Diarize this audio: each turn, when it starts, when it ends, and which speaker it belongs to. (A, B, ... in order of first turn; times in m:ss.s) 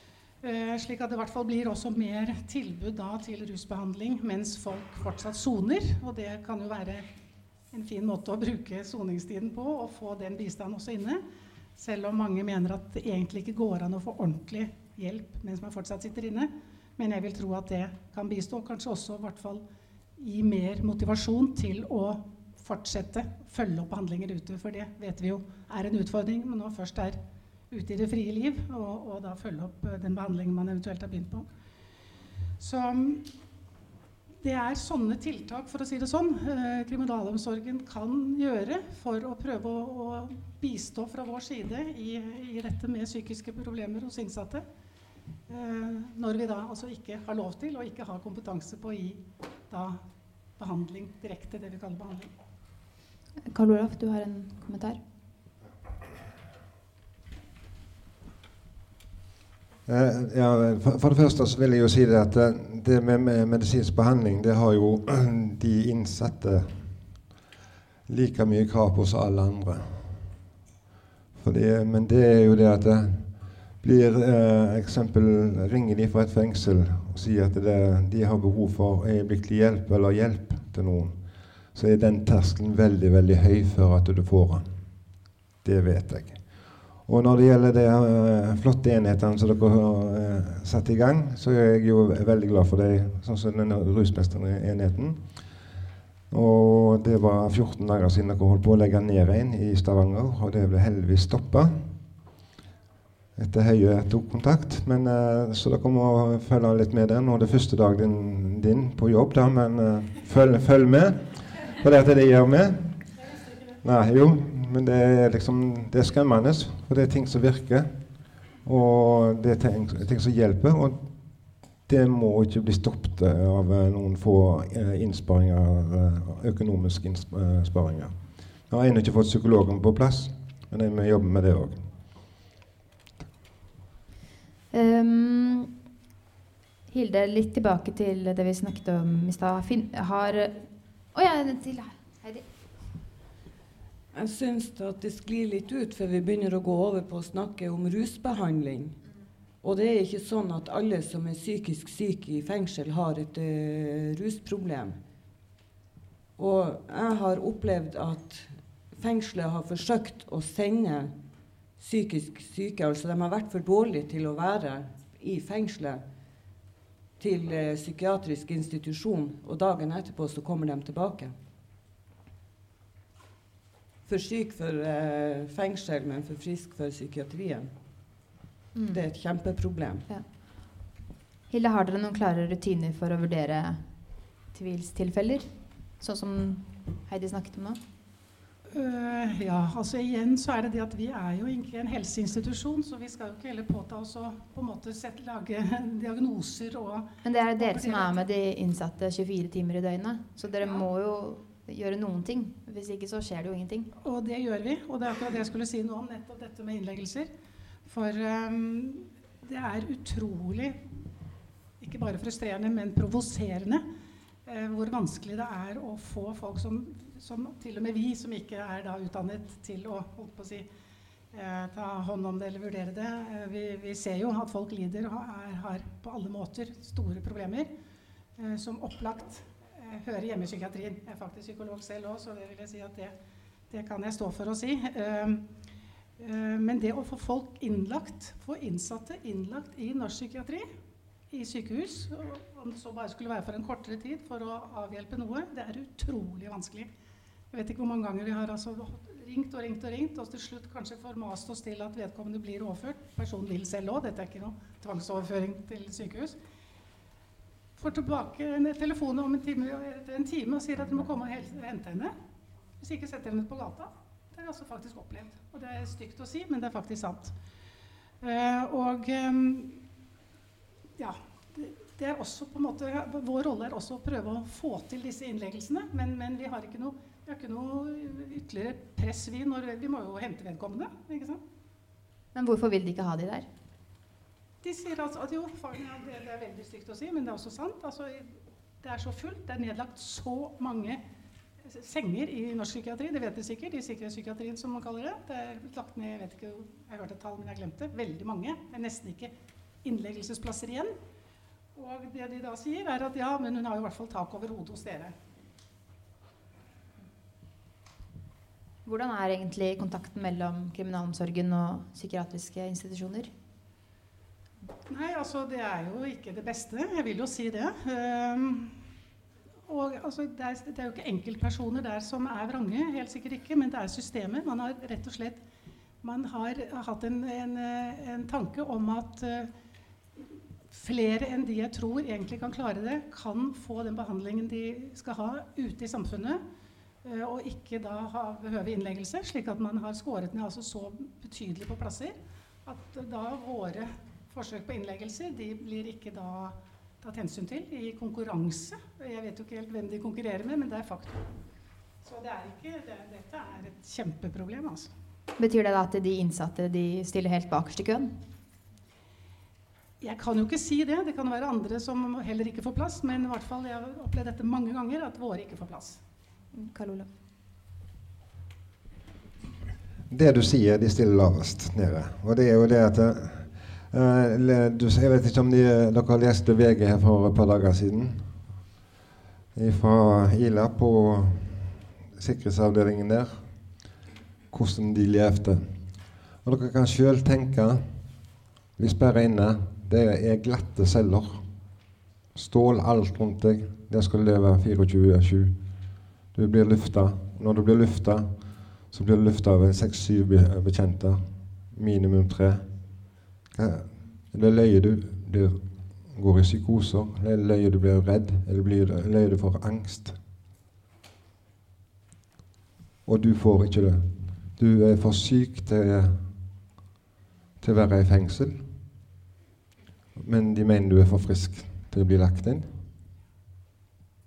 0:00.4-0:07.1 A
0:07.7-0:11.2 A
0:11.8-0:19.6 A
0:20.2-0:31.4 A
0:32.6-0:33.3 A
0:34.4-0:44.6 A
0:45.5-0:50.0 A
0:50.6-0:52.3 A
0:53.5-0:55.0 B
0:59.8-1:06.9 C
1:08.1-1:10.2 C
1:11.4-1:13.3 C
1:13.8-1:21.2 C
1:21.7-1:24.7 C
1:25.6-1:26.4 C
1:27.0-1:35.2 C
1:36.3-1:41.8 C
1:43.4-1:53.1 C
1:53.8-1:57.9 C
1:58.6-2:01.0 C
2:01.9-2:08.1 C
2:08.7-2:11.8 C
2:14.7-2:15.7 B
2:16.9-2:22.4 B
2:24.1-2:29.0 D
2:29.6-2:35.0 D
2:36.4-2:41.1 D
2:41.8-2:46.0 D
2:47.2-2:51.3 D
2:54.0-2:57.7 D
2:58.7-2:59.0 B
2:58.9-3:00.0 D
3:01.5-3:03.8 B
3:04.5-3:05.5 B
3:06.0-3:07.8 B
3:08.7-3:18.2 A
3:17.2-3:23.9 B
3:24.0-3:27.3 A
3:27.8-3:30.8 A
3:31.8-3:33.8 A
3:34.4-3:40.6 A
3:41.3-3:47.7 A
3:48.4-3:53.1 A
3:53.7-3:55.4 A
3:56.2-4:00.6 A
4:01.3-4:06.9 A
4:07.5-4:16.4 A
4:17.8-4:22.1 A
4:22.8-4:27.4 A
4:28.2-4:29.8 A
4:31.0-4:41.4 A
4:42.3-4:43.5 B
4:44.6-4:51.0 A
4:51.6-4:59.3 A
4:59.8-5:00.9 A
5:01.7-5:05.1 A
5:08.8-5:13.3 B
5:14.9-5:18.8 A
5:19.7-5:25.4 A
5:26.0-5:29.5 A
5:30.7-5:36.4 A
5:37.0-5:51.3 A
5:52.0-5:54.9 A
5:55.4-5:58.1 B
6:00.0-6:06.0 A
6:06.5-6:07.1 B
6:10.1-6:18.3 C
6:19.5-6:23.4 C
6:24.5-6:25.6 C
6:26.4-6:27.8 C
6:28.8-6:31.4 C
6:32.3-6:35.5 C
6:36.3-6:38.3 C
6:38.9-6:42.7 C
6:43.5-6:50.2 C
6:53.0-6:56.2 C
6:57.6-6:58.6 C
7:00.2-7:02.7 C